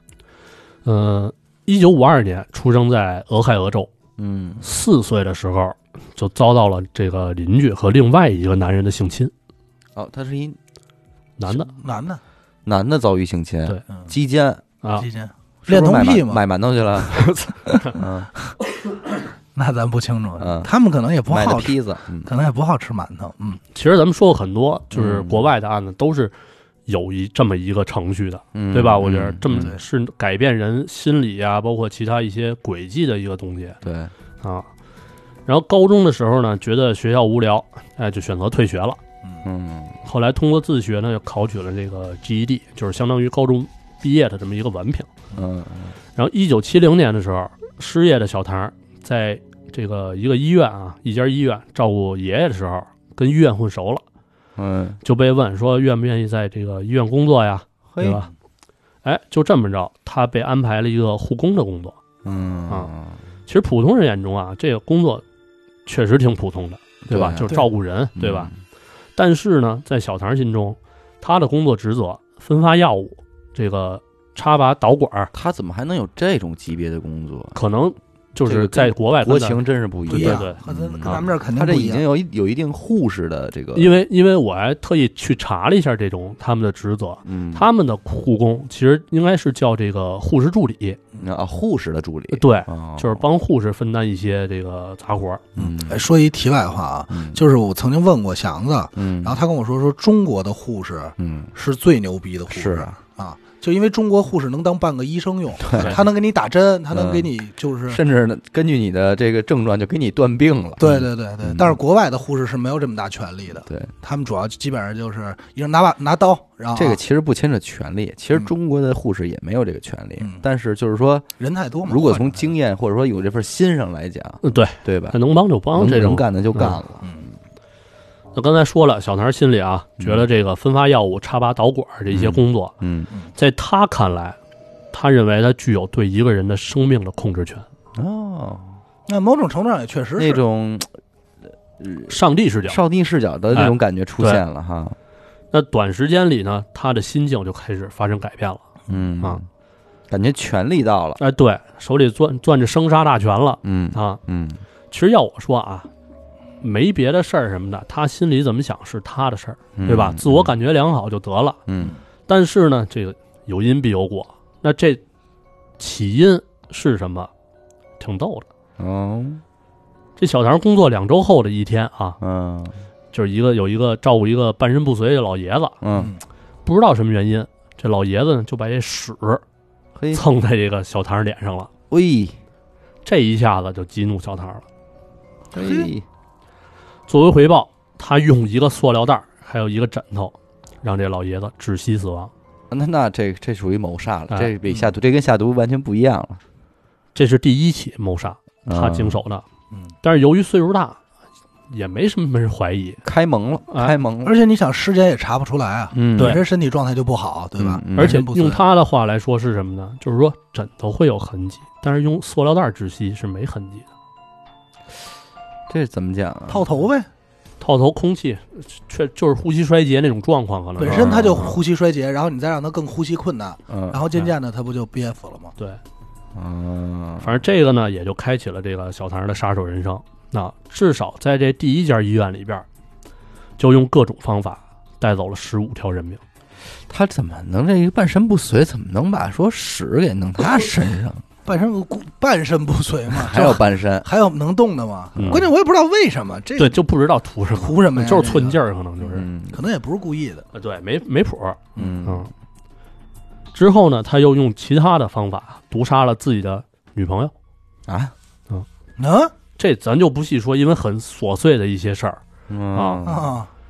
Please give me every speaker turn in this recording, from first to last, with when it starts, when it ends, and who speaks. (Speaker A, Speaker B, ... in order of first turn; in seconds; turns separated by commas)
Speaker A: 0.8-3.9, Speaker B: 4.2-4.6, Speaker A: 4.6-9.3, Speaker B: 9.9-10.6, Speaker A: 11.4-11.7, Speaker C: 11.5-12.2, Speaker B: 12.7-14.6, Speaker C: 14.9-16.4, Speaker B: 15.6-18.3, Speaker C: 19.5-23.6, Speaker B: 20.4-20.7, Speaker B: 21.3-22.3, Speaker A: 23.7-26.3, Speaker B: 24.9-25.5, Speaker A: 26.9-33.8, Speaker B: 28.5-29.7, Speaker C: 29.5-29.8, Speaker B: 33.8-34.1, Speaker A: 34.4-34.7, Speaker A: 35.5-39.0, Speaker B: 39.4-39.9, Speaker A: 40.0-45.1, Speaker B: 45.3-46.0, Speaker A: 46.1-54.0, Speaker B: 54.6-55.0, Speaker A: 55.0-58.3, Speaker B: 57.9-58.2, Speaker A: 59.0-62.0, Speaker B: 62.2-63.2, Speaker A: 63.5-65.2, Speaker A: 65.8-68.5, Speaker B: 67.1-67.5, Speaker B: 68.2-68.5, Speaker A: 69.2-75.3, Speaker B: 75.3-77.6, Speaker A: 77.5-81.2, Speaker B: 78.4-83.9, Speaker C: 80.1-82.0, Speaker A: 83.7-91.0, Speaker B: 87.2-87.7, Speaker B: 91.2-93.2, Speaker A: 92.3-95.5, Speaker B: 95.5-96.0, Speaker C: 95.6-108.0, Speaker B: 97.1-97.4, Speaker B: 99.0-99.4, Speaker B: 101.2-101.5, Speaker B: 102.5-102.9, Speaker B: 105.6-106.0, Speaker B: 106.9-107.3, Speaker B: 107.9-111.8, Speaker C: 110.8-117.0, Speaker B: 113.7-113.9, Speaker B: 116.7-121.2, Speaker C: 120.2-120.4, Speaker C: 121.4-122.5, Speaker B: 121.8-125.2, Speaker A: 124.4-126.8, Speaker B: 125.7-127.1, Speaker C: 127.0-127.3, Speaker A: 128.3-132.7, Speaker B: 130.0-130.2, Speaker B: 132.1-133.1, Speaker A: 133.3-134.4, Speaker A: 134.9-137.6, Speaker B: 137.9-138.8, Speaker C: 139.1-140.4, Speaker B: 140.2-140.9, Speaker B: 141.8-144.9, Speaker A: 142.1-142.8, Speaker A: 143.5-144.4, Speaker A: 145.5-148.6, Speaker B: 148.9-149.4, Speaker B: 150.1-151.2, Speaker A: 151.2-154.2, Speaker B: 153.6-154.6, Speaker A: 154.9-155.9, Speaker A: 156.6-161.6, Speaker B: 159.8-160.5, Speaker B: 161.7-161.9, Speaker A: 162.3-165.0, Speaker A: 165.8-167.3, Speaker A: 168.0-168.5, Speaker B: 168.8-169.4, Speaker A: 170.2-172.2, Speaker B: 172.2-172.8, Speaker A: 173.1-175.8, Speaker B: 175.8-176.1, Speaker C: 175.9-176.2, Speaker A: 176.6-179.4, Speaker B: 179.9-180.2, Speaker A: 180.1-181.7, Speaker B: 181.9-182.4, Speaker A: 183.0-184.6, Speaker B: 185.5-186.0, Speaker C: 185.5-185.9, Speaker A: 187.1-192.3, Speaker B: 192.7-196.4, Speaker A: 197.1-199.4, Speaker B: 198.7-199.2, Speaker A: 200.0-201.0, Speaker A: 201.7-203.0, Speaker B: 203.0-204.3, Speaker C: 204.2-208.6, Speaker B: 205.9-206.4, Speaker A: 206.2-206.4, Speaker B: 207.6-208.2, Speaker A: 207.9-213.9, Speaker B: 215.7-216.7, Speaker C: 216.5-217.1, Speaker A: 217.6-221.6, Speaker C: 220.8-225.5, Speaker B: 220.8-221.5, Speaker B: 223.7-224.0, Speaker B: 226.3-227.4, Speaker A: 227.2-232.7, Speaker A: 233.6-236.2, Speaker B: 236.9-241.2, Speaker C: 241.4-246.8, Speaker B: 243.1-244.1, Speaker A: 245.2-245.5, Speaker A: 246.6-249.3, Speaker C: 247.6-250.4, Speaker B: 249.1-249.6, Speaker A: 250.5-252.3, Speaker B: 251.8-252.3, Speaker A: 253.5-257.3, Speaker B: 257.9-258.1, Speaker C: 259.0-259.3, Speaker A: 259.6-262.2, Speaker B: 262.5-263.3, Speaker A: 262.7-263.0, Speaker C: 263.1-263.5